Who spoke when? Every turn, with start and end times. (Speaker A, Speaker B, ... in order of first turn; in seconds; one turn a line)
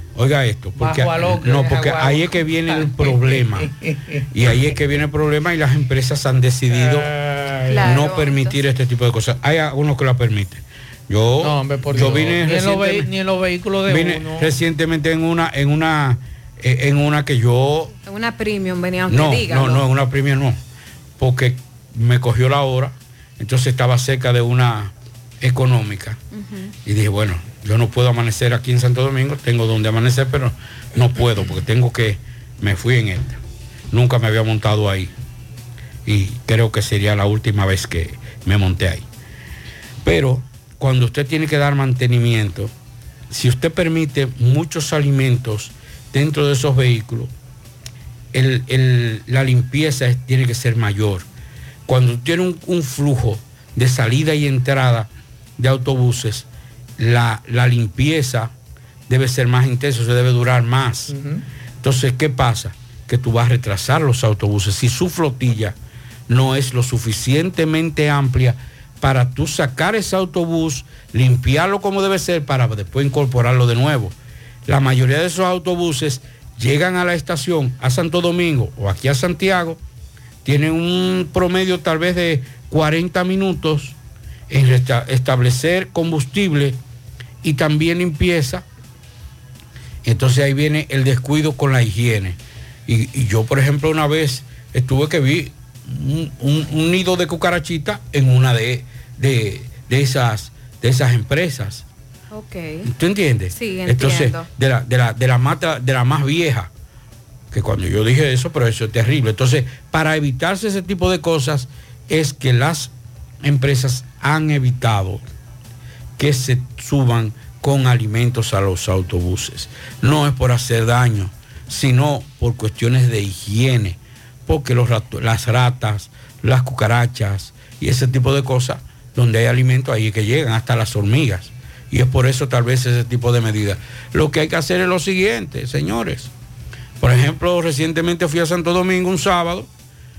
Speaker A: 0.1-3.7
Speaker B: 0.8-4.3
Speaker A: 4.3-7.1
Speaker B: 6.7-8.0
Speaker C: 7.7-8.6
Speaker A: 7.8-13.1
Speaker B: 11.4-14.5
Speaker A: 13.9-17.9
Speaker C: 18.1-19.8
Speaker A: 19.1-20.6
Speaker A: 21.2-26.2
Speaker C: 26.3-26.7
Speaker A: 26.9-33.4
Speaker A: 33.9-35.1
Speaker A: 36.1-39.1
Speaker A: 40.0-42.7
Speaker A: 43.3-47.3
Speaker A: 48.3-51.3
Speaker A: 51.9-56.5
Speaker A: 57.0-58.5
Speaker A: 59.1-61.1
Speaker B: 61.1-61.4
Speaker A: 61.8-65.8
Speaker A: 66.3-79.8
Speaker A: 80.4-84.0
Speaker A: 84.5-86.8
Speaker A: 87.4-88.7
Speaker A: 90.0-101.8
Speaker C: 102.3-102.9
Speaker A: 102.8-106.7
Speaker C: 103.5-104.5
Speaker A: 107.5-115.2
Speaker A: 116.2-136.3
Speaker A: 137.0-139.7